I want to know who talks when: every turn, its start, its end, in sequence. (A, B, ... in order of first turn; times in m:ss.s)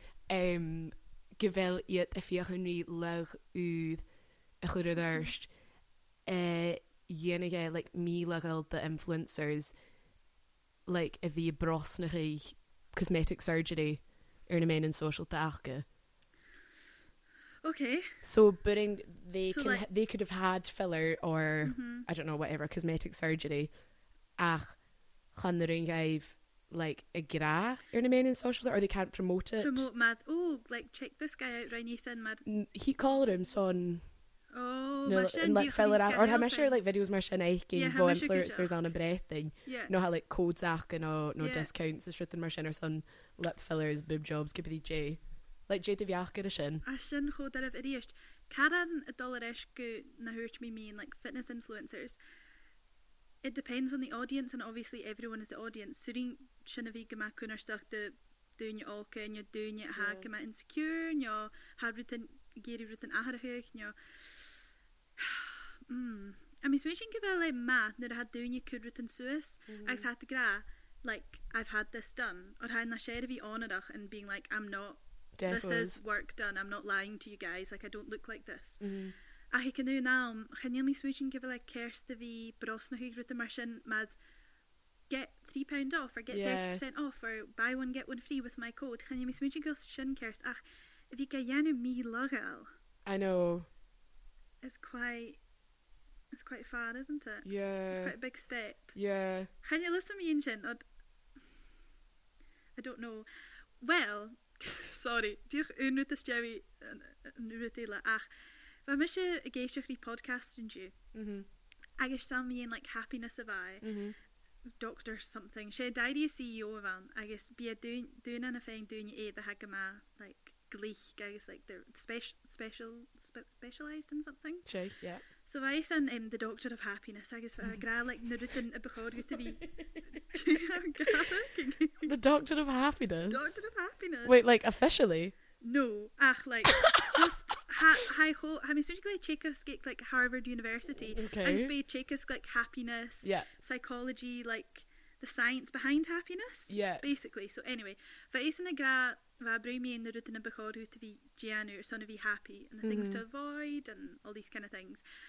0:00.3-0:04.0 A
0:04.6-0:05.5 A
0:06.3-0:09.7 A
0:10.9-0:15.9 A
0:17.6-0:18.1 B
0:18.2-0:23.7 A
0:19.5-0:19.8 B
0:21.6-0:22.1 B
0:24.4-0:24.8 A
0:25.3-0:29.9 A
0:29.6-0:32.4 B
0:32.5-0:34.0 A
0:34.5-0:36.8 B
0:35.0-0:46.8 A
0:37.7-0:38.8 B
0:39.6-0:39.9 B
0:41.4-0:41.7 B
0:46.8-0:52.2 B
0:53.4-1:04.0 B
1:00.0-1:00.3 A
1:05.2-1:18.8 B
1:09.7-1:10.1 A
1:15.4-1:16.0 A
1:18.8-1:19.1 A
1:19.5-1:24.2 B
1:25.1-1:32.7 B
1:26.3-1:26.8 A
1:33.0-1:33.7 A
1:34.6-1:35.4 B
1:36.3-1:39.0 B
1:37.4-1:38.1 A
1:39.0-1:39.5 A
1:39.6-1:40.8 B
1:42.8-1:43.3 B
1:43.8-1:48.3 B
1:48.9-1:51.0 B
1:51.1-1:51.5 A
1:52.0-1:53.9 B
1:53.8-1:54.2 A
1:54.8-2:04.7 B
2:04.7-2:05.2 A
2:05.5-2:09.6 B
2:09.1-2:11.1 A
2:10.2-2:12.1 B
2:12.0-2:13.6 A
2:13.3-2:14.4 B
2:14.2-2:15.4 A
2:15.6-2:35.0 B
2:16.7-2:17.4 A
2:21.0-2:21.7 A
2:23.2-2:23.5 A
2:26.7-2:27.1 A
2:32.8-2:33.2 A